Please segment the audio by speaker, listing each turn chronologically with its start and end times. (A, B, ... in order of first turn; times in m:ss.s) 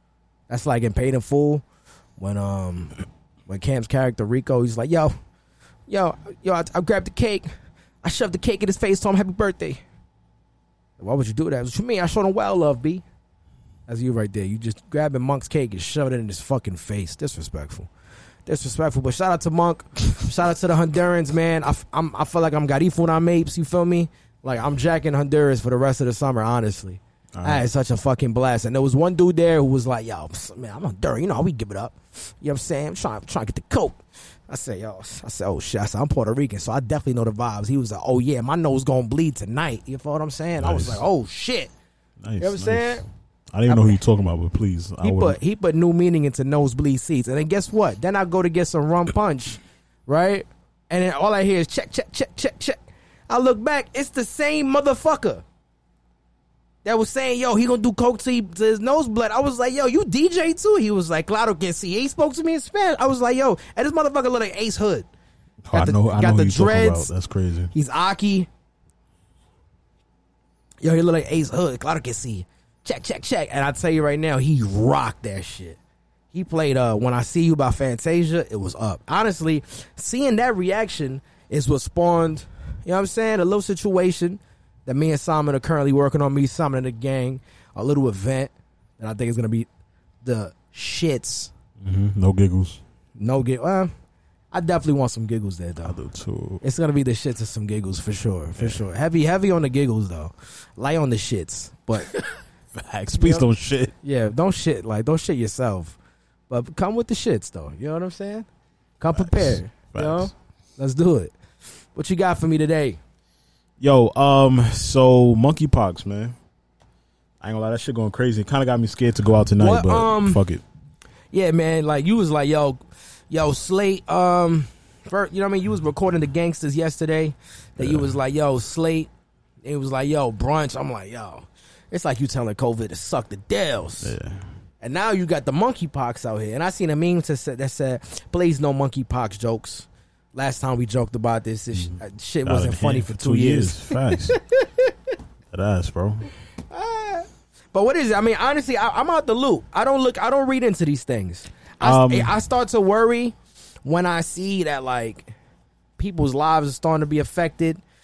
0:00.5-0:01.6 A
0:02.2-0:02.9 A
0:03.5-0:05.1 A
0:05.9-0:07.5 A
0:08.0-0:09.8 A
0:11.0-0:13.0 A
0:13.9-0:17.9 A
0:18.4-0:41.7 A
0:27.3-0:27.7 B
0:40.6-0:41.0 B
0:42.2-0:45.4 B
0:42.4-0:43.0 A
0:43.7-0:44.0 A
0:45.0-0:55.4 A
0:56.8-1:05.1 A
1:05.6-1:07.7 B
1:05.7-1:07.1 A
1:07.7-1:08.5 A
1:10.8-1:15.8 A
1:16.3-1:29.7 A
1:30.2-1:31.5 A
1:31.8-1:32.8 B
1:33.2-1:33.9 A
1:34.5-1:36.0 A
1:35.8-1:36.6 B
1:36.6-1:42.1 A
1:38.6-1:38.8 B
1:42.7-1:43.9 B
1:43.1-1:43.5 A
1:44.0-1:46.0 A
1:46.5-1:48.5 A
1:49.0-1:51.3 A
1:49.1-1:50.3 B
1:51.9-1:53.0 A
1:53.8-1:56.4 B
1:57.4-2:00.6 B
1:59.6-2:00.4 A
2:01.3-2:09.1 A
2:07.8-2:08.2 B
2:09.6-2:14.1 A
2:14.0-2:14.5 B
2:14.8-2:24.9 A
2:21.7-2:24.4 B
2:25.5-2:26.3 B
2:26.7-2:35.3 A
2:31.8-2:32.3 B
2:36.0-2:37.8 A